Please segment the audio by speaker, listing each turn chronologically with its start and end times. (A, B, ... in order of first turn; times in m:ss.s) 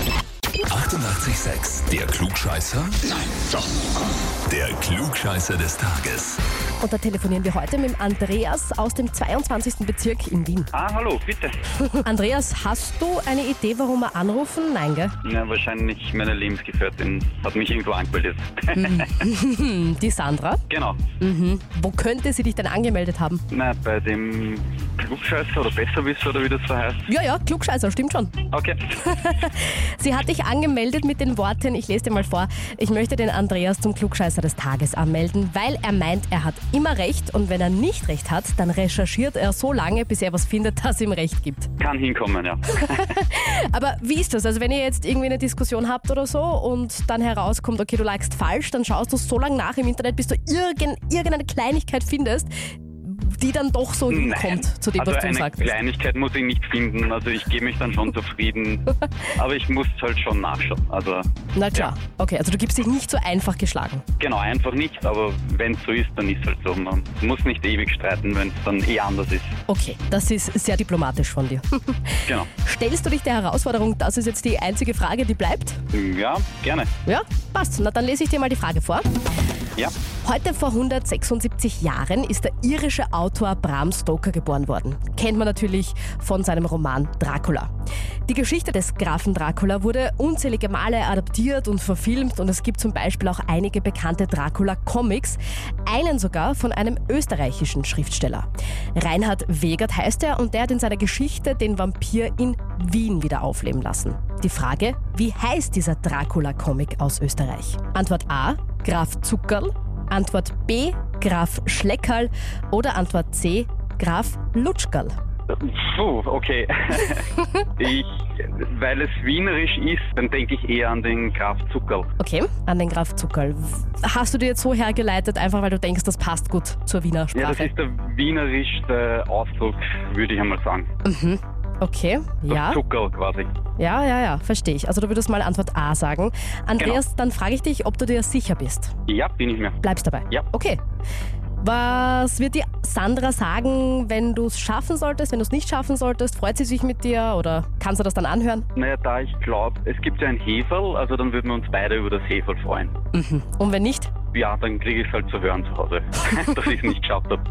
0:00.6-0:03.1 A
0:04.5-0:06.4 A
0:06.8-0:10.7 B
0:10.7-0:11.6 C
0:11.8-0:15.1 B
0:15.2-0:19.2 C
0:18.7-0:20.6 B
0:20.7-0:21.0 C
0:21.2-0:23.4 B
0:23.5-0:27.1 C
0:27.1-0:28.4 B
0:28.5-0:29.0 C
0:29.0-0:41.7 B
0:41.8-0:43.0 C
0:42.8-0:55.7 B
0:54.1-1:01.9 C
1:01.6-1:04.0 B
1:04.2-1:09.5 C
1:09.7-1:15.8 B
1:15.9-1:16.9 C
1:17.0-1:19.1 B
1:20.2-1:27.7 B
1:28.3-1:55.1 B
1:55.5-2:02.1 C
2:02.2-2:07.7 B
2:07.3-2:10.9 C
2:11.0-2:12.8 B
2:12.5-2:13.5 C
2:13.8-2:18.9 B
2:19.1-2:19.8 C
2:19.8-2:20.8 B
2:21.6-2:28.6 B
2:28.7-2:32.9 C
2:33.1-2:34.1 B
2:34.3-2:37.4 C